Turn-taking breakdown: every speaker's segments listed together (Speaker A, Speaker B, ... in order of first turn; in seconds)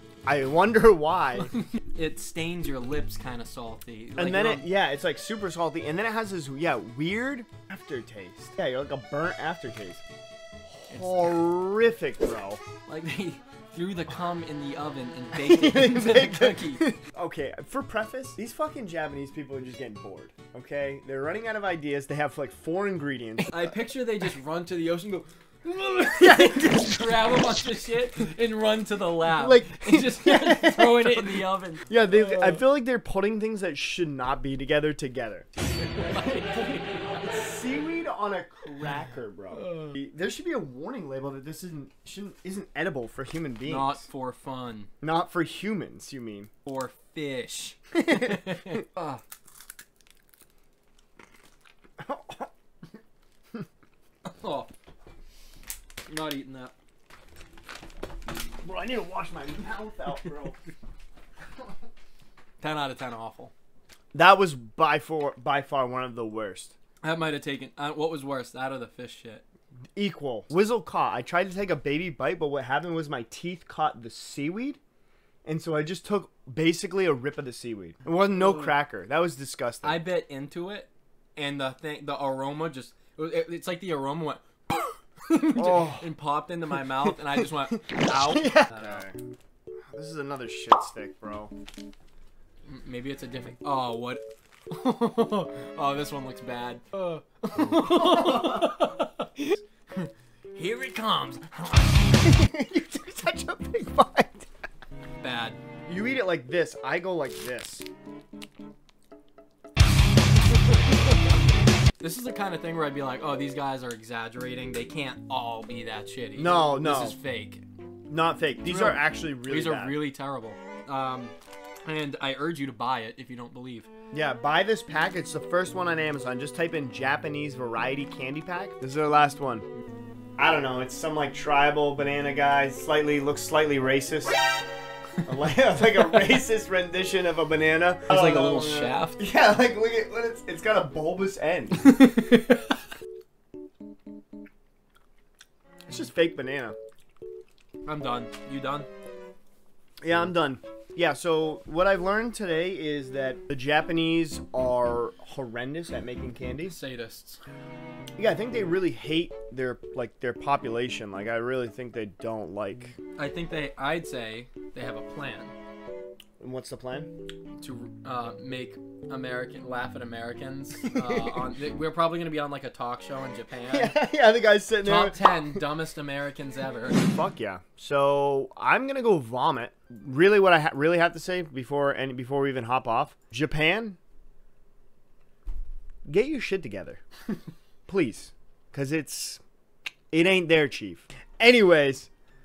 Speaker A: 0.3-1.5, 4.2-10.0, 10.7-12.6, 15.3-23.7, 26.2-27.2, 29.3-35.5, 36.0-44.0, 45.0-46.5, 48.0-48.9, 52.0-52.5, 58.6-60.6, 64.1-66.8, 70.0-74.8, 75.5-80.0, 85.3-86.1, 87.7-89.2, 89.9-91.5, 98.0-98.4, 102.2-104.5, 105.9-107.9, 116.4-117.2, 118.1-120.0, 124.1-129.7, 130.4-134.4, 135.2-141.9, 145.9-146.8, 150.0-156.8, 158.2-163.0, 166.4-167.1, 170.8-171.3, 173.7-175.6, 177.0-184.0, 186.1-187.0, 187.9-189.4, 190.1-192.1
Speaker B: 1.6-4.7, 10.9-11.3, 12.9-16.8, 23.5-32.6, 35.7-37.2, 39.6-40.0, 43.6-44.9, 46.7-49.2, 54.2-54.7, 56.1-56.7, 62.6-63.5, 67.0-69.4, 78.3-78.7, 79.8-89.0, 92.7-102.3, 105.2-105.6, 112.0-117.7, 118.6-123.9, 138.1-139.2, 141.8-142.7, 147.8-148.9, 156.7-157.4, 163.2-165.6, 167.6-174.0, 174.8-177.0